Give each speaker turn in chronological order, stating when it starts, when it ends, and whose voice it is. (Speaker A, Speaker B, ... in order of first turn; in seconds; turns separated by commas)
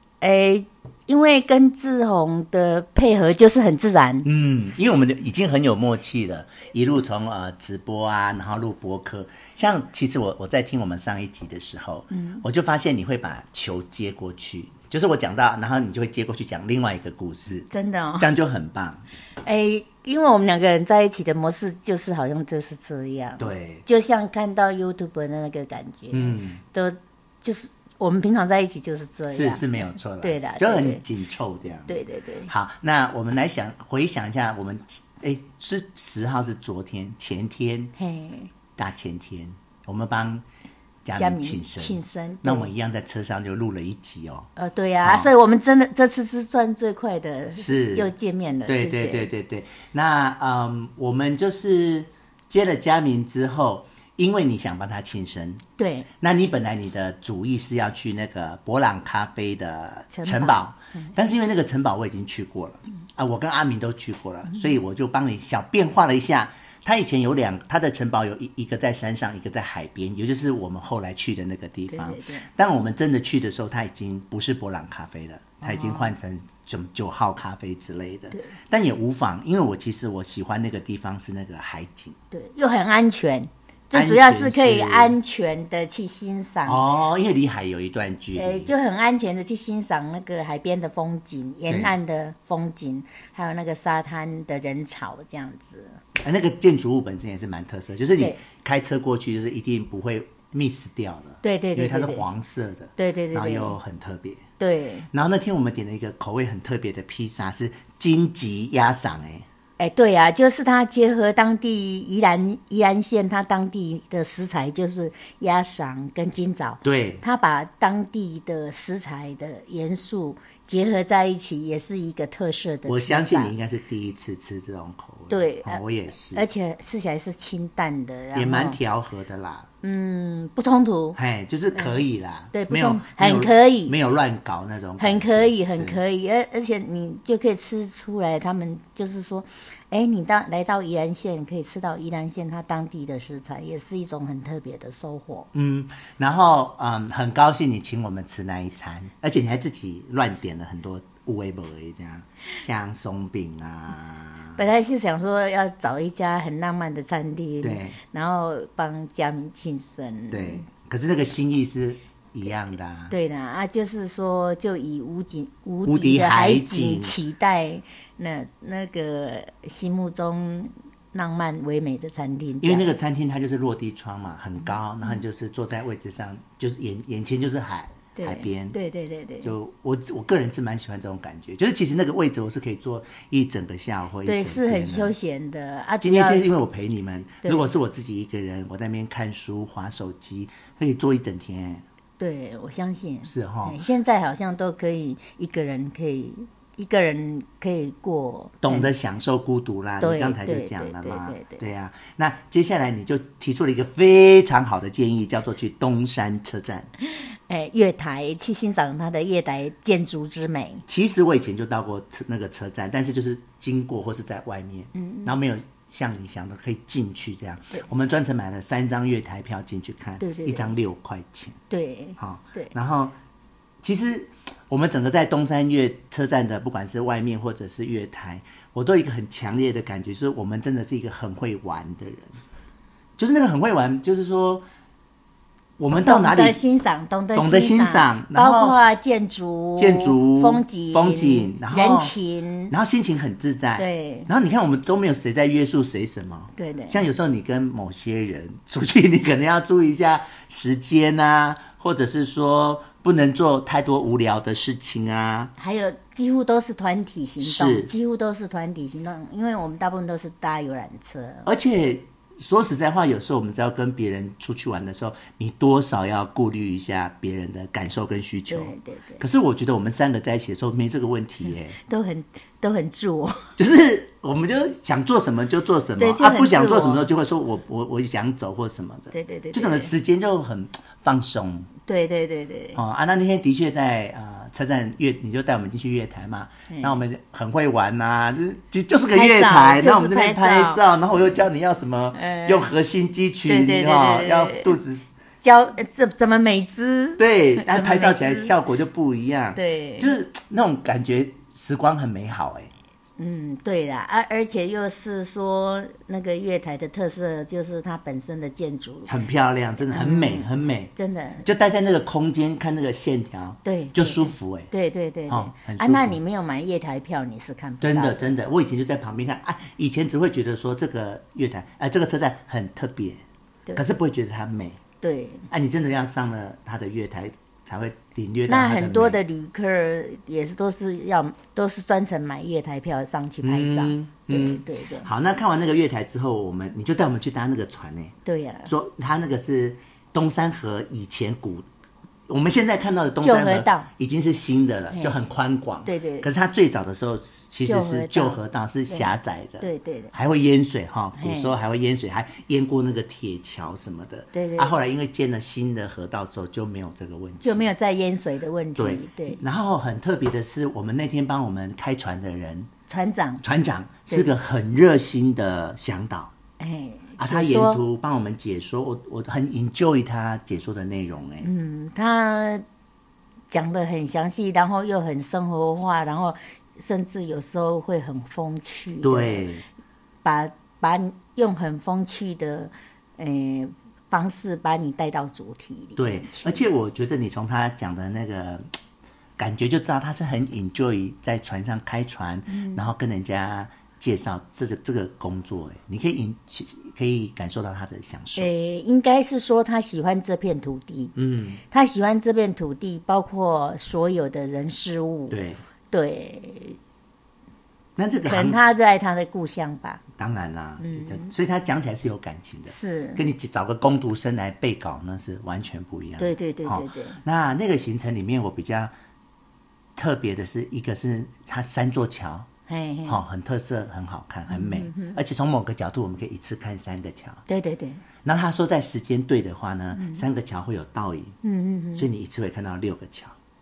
Speaker A: 0.2-4.3, Speaker B: 4.2-19.0, Speaker A: 12.1-12.4, Speaker A: 17.7-18.3, Speaker A: 19.4-31.0, Speaker B: 23.4-23.8, Speaker B: 26.1-26.6, Speaker B: 29.3-37.9, Speaker A: 31.8-32.5, Speaker A: 38.0-38.5, Speaker B: 38.8-40.4, Speaker B: 41.0-44.5, Speaker A: 41.1-42.7, Speaker A: 44.5-49.3, Speaker B: 45.0-45.3, Speaker B: 47.5-48.1, Speaker B: 48.6-55.6, Speaker A: 55.8-56.1, Speaker B: 56.2-82.2, Speaker A: 60.1-61.1, Speaker A: 71.9-72.5, Speaker A: 75.6-76.2, Speaker A: 82.3-86.9, Speaker B: 83.9-85.2, Speaker B: 86.7-88.7, Speaker A: 88.3-96.0, Speaker B: 91.7-92.0, Speaker B: 96.2-104.4, Speaker A: 101.4-102.2, Speaker A: 103.0-103.8, Speaker A: 104.6-105.1, Speaker B: 105.1-109.5, Speaker A: 109.8-123.5, Speaker B: 116.8-117.2, Speaker B: 122.9-126.5, Speaker A: 125.3-125.8, Speaker A: 126.3-128.8, Speaker B: 128.3-129.7, Speaker A: 129.8-131.2, Speaker B: 131.2-136.0, Speaker A: 131.7-132.0, Speaker A: 132.5-133.9, Speaker A: 135.0-145.5, Speaker B: 145.5-154.6, Speaker A: 154.6-160.7, Speaker B: 157.6-158.0, Speaker B: 160.3-163.1, Speaker A: 163.1-172.9, Speaker B: 165.8-167.1, Speaker B: 172.6-178.8, Speaker A: 178.2-179.5, Speaker B: 179.4-185.1, Speaker A: 184.2-186.5, Speaker B: 186.0-191.8, Speaker A: 187.4-187.7, Speaker A: 192.2-198.9, Speaker B: 193.2-193.8, Speaker B: 198.6-206.9, Speaker A: 200.0-201.6, Speaker A: 207.0-210.8, Speaker B: 210.9-221.6, Speaker A: 214.9-215.3, Speaker A: 220.2-220.7, Speaker A: 221.7-222.7, Speaker B: 222.2-223.1, Speaker B: 223.8-232.4, Speaker B: 233.2-234.6, Speaker B: 235.8-236.6, Speaker A: 235.9-242.7, Speaker B: 237.3-238.8, Speaker B: 239.8-242.2, Speaker B: 242.7-255.5, Speaker A: 243.8-244.3, Speaker A: 246.6-247.1, Speaker A: 255.6-261.5, Speaker B: 257.4-257.9, Speaker B: 261.4-271.8, Speaker A: 268.5-269.2, Speaker A: 271.8-273.5, Speaker B: 273.6-281.7, Speaker A: 276.0-277.1, Speaker A: 279.1-279.9, Speaker A: 281.9-282.8, Speaker B: 282.7-295.0, Speaker A: 286.7-287.0, Speaker A: 289.1-290.8, Speaker A: 292.1-292.7, Speaker A: 293.4-294.8, Speaker A: 295.4-298.5, Speaker B: 297.2-302.7, Speaker A: 299.5-300.2, Speaker A: 303.2-309.1, Speaker B: 309.1-310.9, Speaker A: 309.9-311.4, Speaker B: 311.4-314.7, Speaker A: 313.6-318.3, Speaker B: 315.3-316.2, Speaker B: 317.8-323.2, Speaker B: 323.7-324.8, Speaker A: 325.0-325.5, Speaker B: 325.5-329.2, Speaker A: 328.5-335.1, Speaker B: 333.4-338.1, Speaker A: 338.2-338.7, Speaker B: 338.6-341.6, Speaker B: 342.3-357.6, Speaker A: 343.2-343.9, Speaker A: 345.8-346.3, Speaker A: 347.6-349.1, Speaker A: 349.6-350.1, Speaker A: 351.2-351.5, Speaker A: 354.3-354.8, Speaker A: 357.4-359.4, Speaker B: 358.8-362.7, Speaker A: 362.9-363.4, Speaker B: 363.4-366.3, Speaker A: 364.1-364.3, Speaker A: 366.6-367.8, Speaker B: 367.2-371.5, Speaker A: 371.4-372.6, Speaker A: 373.5-379.5, Speaker B: 379.0-379.6, Speaker A: 380.2-386.6, Speaker B: 386.0-388.7, Speaker B: 389.4-398.5, Speaker A: 392.5-392.8, Speaker A: 398.4-401.1, Speaker B: 401.1-401.6, Speaker A: 401.7-405.4, Speaker B: 405.3-405.6, Speaker A: 405.9-406.8, Speaker B: 408.0-408.6, Speaker A: 408.2-410.0, Speaker B: 410.2-418.9, Speaker A: 410.8-411.3, Speaker A: 412.7-413.2, Speaker A: 416.2-417.2, Speaker B: 419.9-422.5, Speaker A: 422.7-423.2, Speaker B: 423.1-427.4, Speaker A: 424.5-425.2, Speaker A: 427.5-428.0, Speaker B: 428.2-431.4, Speaker A: 429.9-430.2, Speaker A: 431.4-432.1, Speaker B: 431.9-433.3